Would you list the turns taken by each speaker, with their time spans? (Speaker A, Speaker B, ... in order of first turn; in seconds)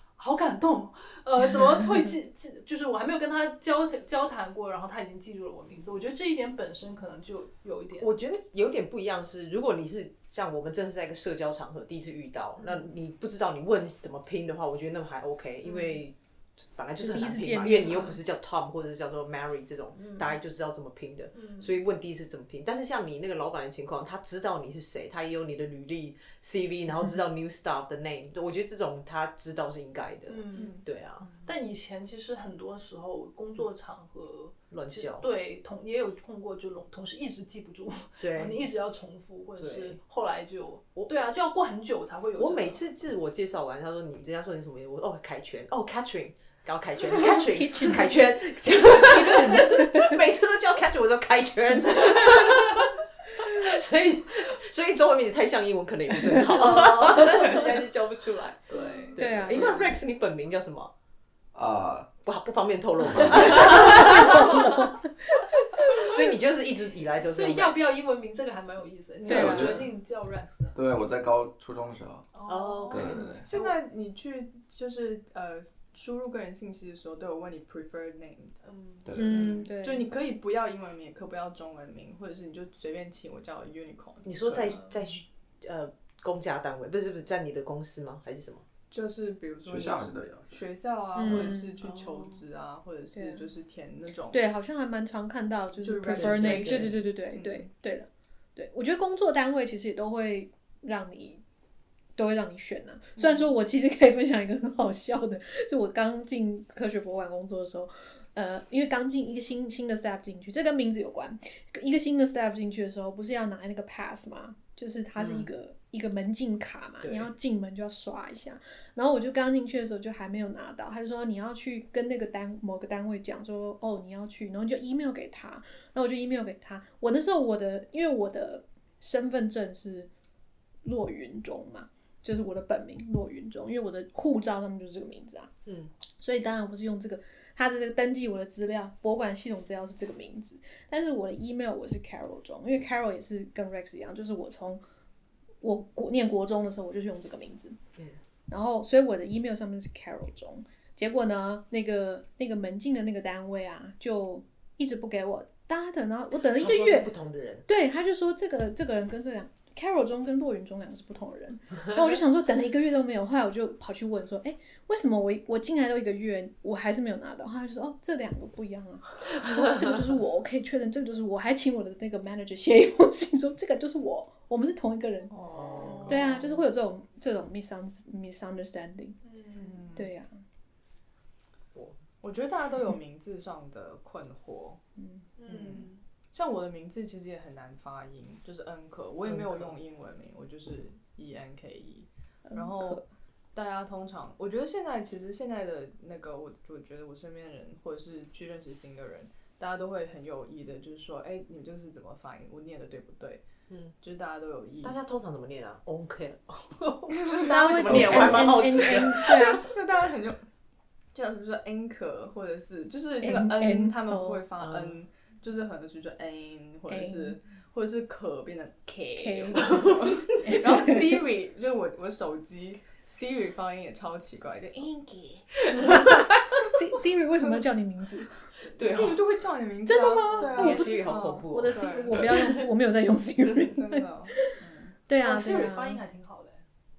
Speaker A: 0.2-8.1, 12.6-12.9, 15.6-16.0, 20.0-20.4, 21.3-21.7, 30.3-42.8, 56.6-57.7, 58.7-59.9, 63.9-64.9, 67.2-70.8, 72.3-73.8, 78.6-79.1, 179.2-179.7, 185.4-186.0, 235.1-236.6
Speaker B: 8.0-31.3, 34.7-35.2, 38.2-38.7, 39.6-40.0, 41.0-41.3, 42.4-60.9, 62.2-64.7, 66.0-67.9, 72.5-73.3, 84.2-88.7, 96.1-97.0, 115.2-115.5, 117.0-117.3, 135.7-135.9, 156.5-157.7, 175.5-176.5, 189.2-189.7, 203.7-203.9, 204.8-209.7, 214.6-215.0, 219.7-220.6, 225.7-226.2, 228.8-229.2, 230.5-232.2
Speaker C: 17.0-18.2, 47.1-48.3, 48.9-50.2, 59.1-59.9, 63.9-64.9, 69.2-69.9, 79.2-80.1, 91.2-91.8, 93.1-93.4, 94.3-101.4, 102.2-130.1, 130.8-135.5, 136.2-144.8, 145.6-147.8, 148.5-157.1, 157.7-175.3, 176.1-179.2, 179.9-180.3, 185.0-185.2, 192.5-193.0, 207.4-209.7, 213.2-214.4, 216.9-217.4, 219.2-221.2, 225.8-228.3, 229.8-234.5, 235.1-236.0
Speaker D: 61.5-62.1, 63.0-63.9, 69.3-69.9, 70.7-72.3, 72.9-73.5, 79.0-79.7, 89.7-90.6, 207.8-208.6
Speaker E: 73.4-78.6, 79.1-84.9, 88.9-94.4, 95.8-97.7, 175.3-176.3, 179.5-180.1, 182.2-184.8, 185.5-203.4, 204.0-205.0, 207.1-210.4, 211.1-225.9, 228.8-232.3, 233.6-235.0